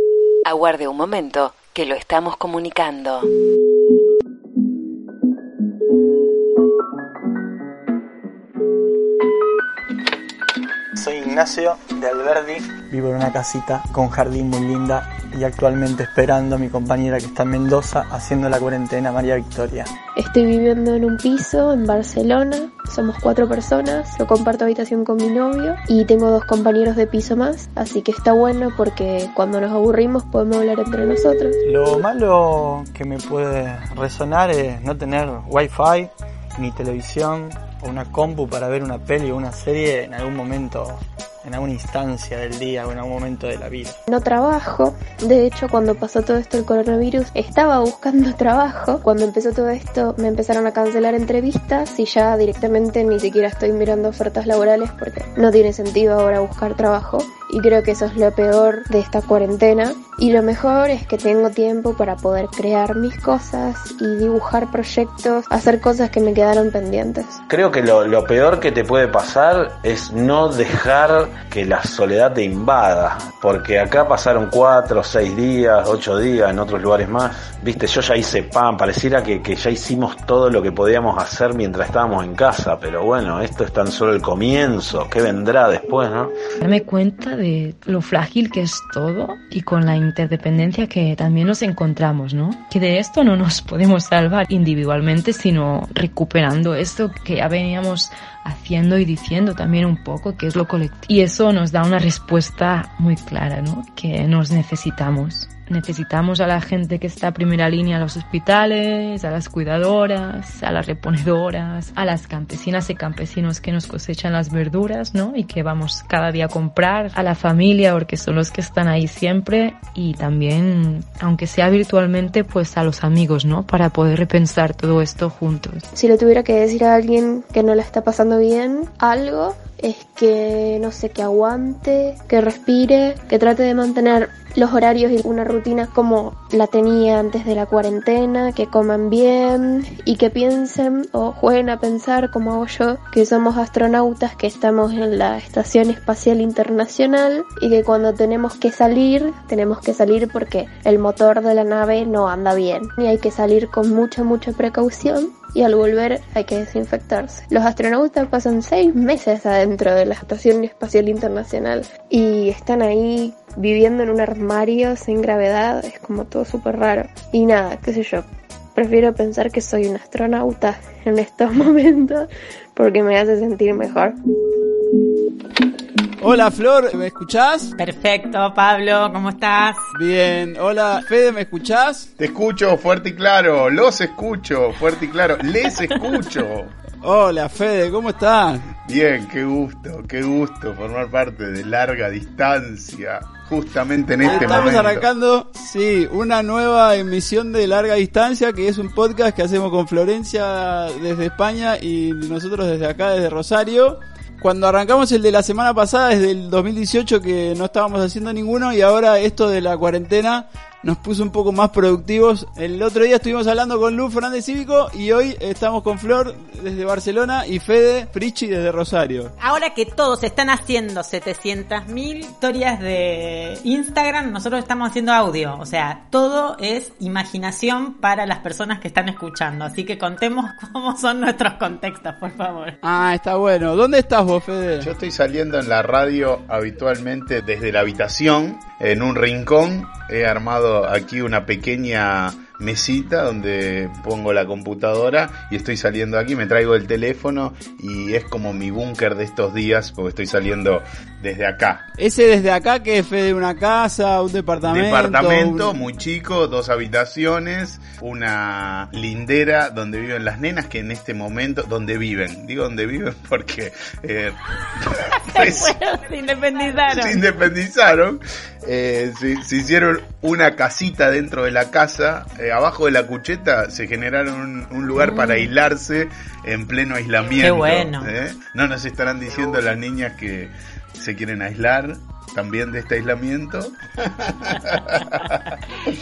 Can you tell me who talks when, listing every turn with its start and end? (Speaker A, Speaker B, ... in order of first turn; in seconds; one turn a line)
Speaker A: 0.5-3.3
Speaker B: 10.9-19.9
Speaker C: 20.1-31.6
Speaker B: 31.6-44.0
Speaker C: 44.1-67.4
Speaker D: 67.5-86.3
Speaker E: 86.6-125.8
Speaker C: 125.9-174.1
Speaker F: 176.2-177.7
Speaker G: 177.8-179.9
Speaker F: 179.9-182.1
Speaker H: 182.2-186.7
Speaker F: 187.0-188.7
Speaker H: 188.8-195.0
Speaker F: 194.2-219.3
Speaker G: 219.4-232.8
Speaker F: 232.8-234.9
Speaker H: 234.8-251.8
Speaker F: 252.0-255.7
Speaker H: 254.6-265.7
Speaker G: 265.3-267.2
Speaker H: 266.9-285.3
Speaker G: 275.0-275.4
Speaker G: 277.4-278.1